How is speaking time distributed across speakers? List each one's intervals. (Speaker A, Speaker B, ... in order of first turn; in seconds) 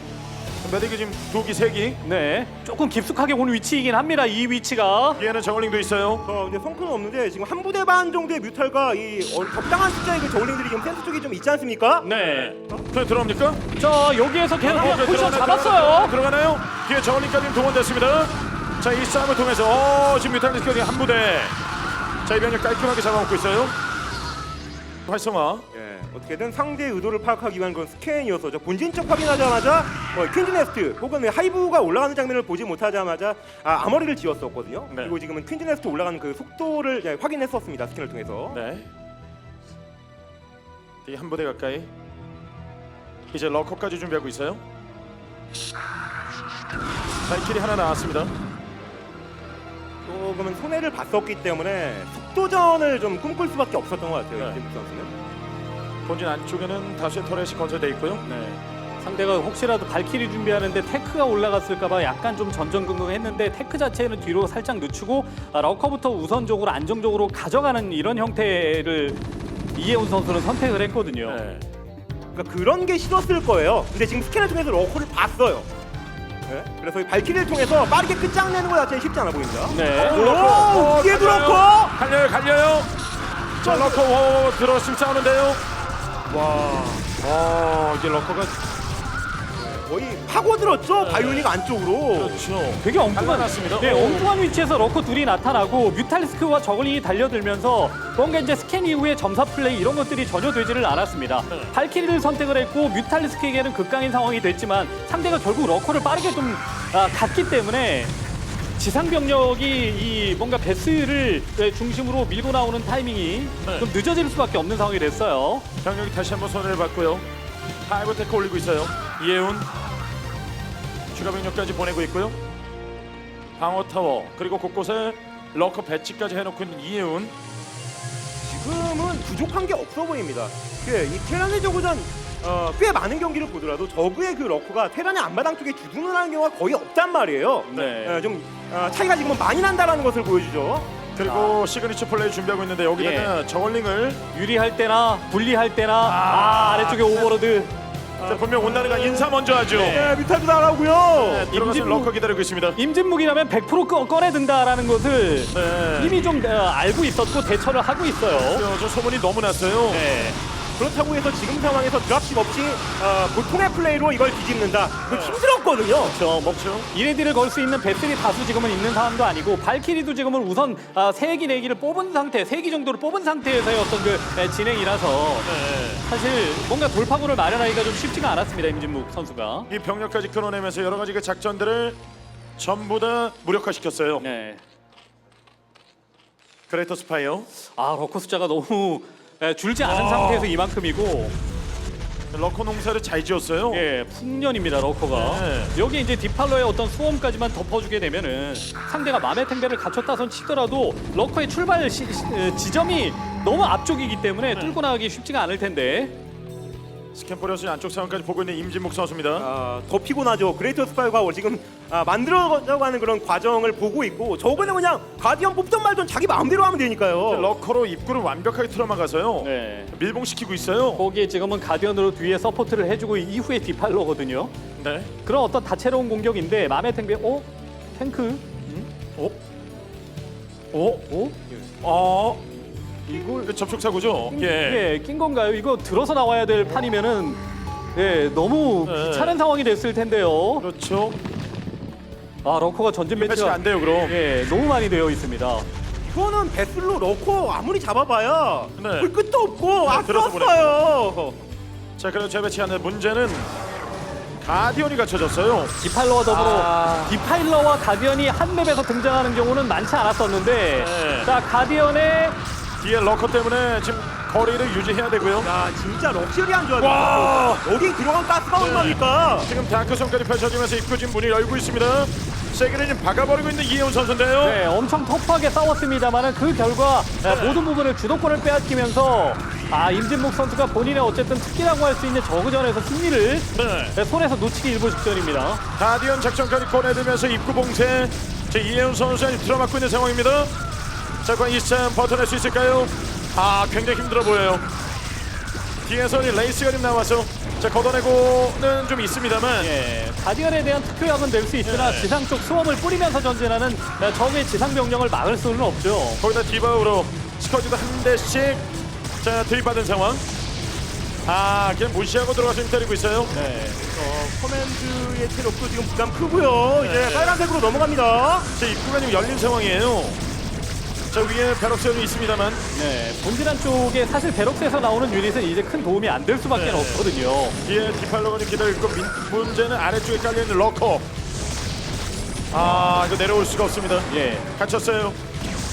Speaker A: 0.6-2.0, 5.2-6.3, 12.2-13.7, 14.6-21.6, 22.2-23.8, 25.1-25.7, 38.5-38.9, 41.0-41.9, 43.3-44.6, 47.2-48.4, 56.0-58.2, 71.2-71.7, 80.0-82.9, 83.6-85.6, 86.3-88.6, 91.0-91.5, 92.1-94.3, 115.8-117.3, 117.9-119.7, 121.1-122.4, 123.6-127.3, 141.2-144.2, 146.0-147.3, 148.2-150.1, 151.1-152.8, 155.5-156.2, 158.3-160.1, 165.1-165.4, 166.4-166.9, 175.4-176.1, 179.7-182.0, 182.6-184.3, 186.7-187.5, 189.8-190.5, 192.3-193.8, 195.1-195.8, 204.5-204.8, 207.1-209.5, 217.3-221.1, 224.8-225.1, 228.7-229.3, 230.7-231.1, 231.8-232.4, 233.2-234.9, 238.8-239.4, 240.6-241.2, 243.1-244.2, 248.8-249.1, 249.8-250.8, 252.0-253.5, 254.4-255.8, 256.3-257.1, 260.8-261.3, 262.8-265.5, 266.8-267.7, 268.6-274.6, 277.2-277.6, 283.5-284.0, 285.8-290.5, 291.2-294.7, 295.9-299.7, 301.6-302.1, 306.2-308.7, 309.2-310.3, 311.2-313.4, 316.8-317.4, 318.5-320.2, 321.1-322.6, 326.5-327.1, 327.6-331.1, 332.5-335.2
Speaker B: 2.0-5.2, 12.0-12.5, 13.8-16.1, 58.2-69.2, 69.8-71.4, 79.7-80.2, 92.8-108.1, 108.8-115.7, 137.7-138.2, 141.2-141.6, 143.0-143.3, 144.3-147.8, 149.7-150.2, 151.5-152.1, 152.8-158.7, 159.9-160.4, 166.0-179.7, 184.2-184.6, 187.7-191.4, 193.7-206.2, 219.4-219.9, 220.9-224.5, 225.2-228.5, 233.1-233.5, 234.3-237.4, 237.9-240.7, 242.4-245.7, 255.8-262.4, 274.4-285.6, 299.6-306.2, 313.3-313.8, 322.7-327.6, 334.1-334.5
Speaker C: 6.2-12.1, 25.7-38.6, 50.0-55.1, 72.3-75.7, 76.5-82.0, 83.6-84.0, 89.6-92.5, 128.4-141.0, 148.2-151.5, 160.8-166.2, 209.4-217.5, 246.0-251.4, 265.4-269.5, 313.8-318.5